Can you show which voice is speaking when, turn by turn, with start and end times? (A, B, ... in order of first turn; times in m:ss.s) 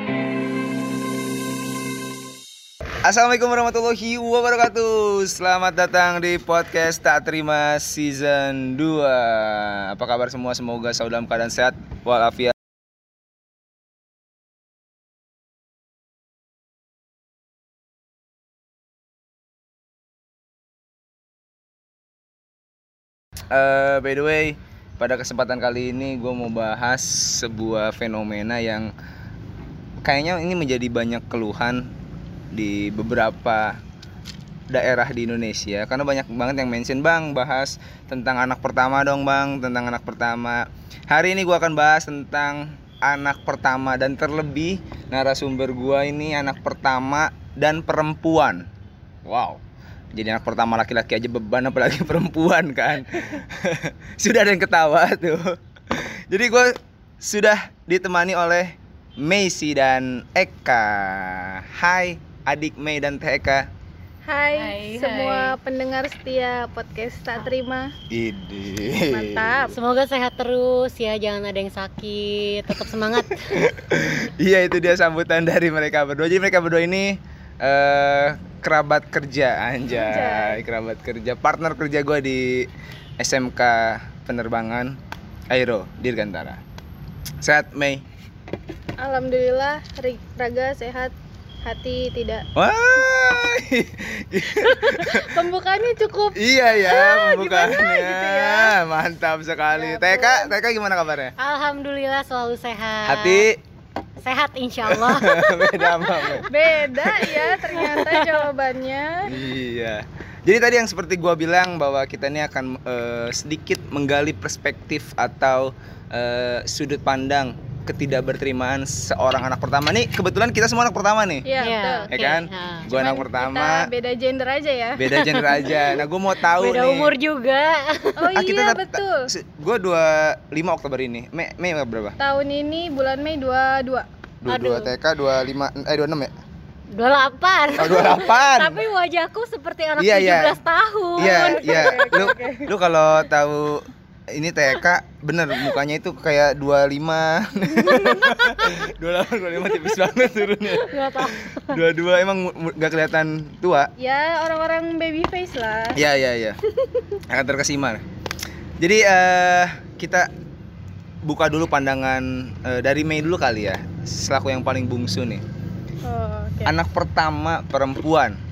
0:03.0-0:12.6 A
0:23.5-0:28.9 A
0:30.0-0:31.9 A
0:32.5-0:33.8 A
0:34.7-0:48.7 A
0:49.2-0:49.6 A
0:50.1-1:03.7 A
1:04.2-1:07.9 B
1:04.5-1:05.5 C
1:08.1-1:09.7 A
1:09.1-1:09.8 B
1:09.7-1:13.6 C
1:13.5-1:25.0 A
1:19.9-1:20.6 B
1:25.5-1:26.6 A
1:27.4-1:28.0 A
1:29.0-1:31.1 B
1:31.6-1:32.4 B
1:32.6-1:35.4 A
1:34.6-1:38.8 B
1:36.4-1:41.3 A
1:39.7-1:40.5 B
1:41.4-1:43.4 C
1:43.0-1:43.6 A
1:44.2-1:46.4 C
1:44.9-1:48.1 A
1:46.5-1:49.3 B
1:47.8-1:48.0 C
1:49.2-2:01.5 A
2:01.4-2:02.1 B
2:01.6-2:02.9 C
2:02.1-2:03.9 A
2:02.9-2:05.1 B
2:05.0-2:07.1 A
2:05.2-2:08.3 C
2:08.2-2:09.3 B
2:08.3-2:12.2 A
2:12.2-2:14.1 B
2:14.4-2:16.3 A
2:14.5-2:14.9 C
2:16.9-2:22.5 C
2:17.8-2:18.8 A
2:20.0-2:20.6 A
2:21.2-2:33.9 A
2:21.2-2:22.7 B
2:28.2-2:28.8 C
2:30.7-2:31.8 C
2:34.0-2:36.0 B
2:36.0-2:36.6 A
2:37.3-2:38.0 A
2:38.8-2:40.3 A
2:41.2-2:45.4 A
2:46.0-2:46.7 B
2:46.6-2:48.4 A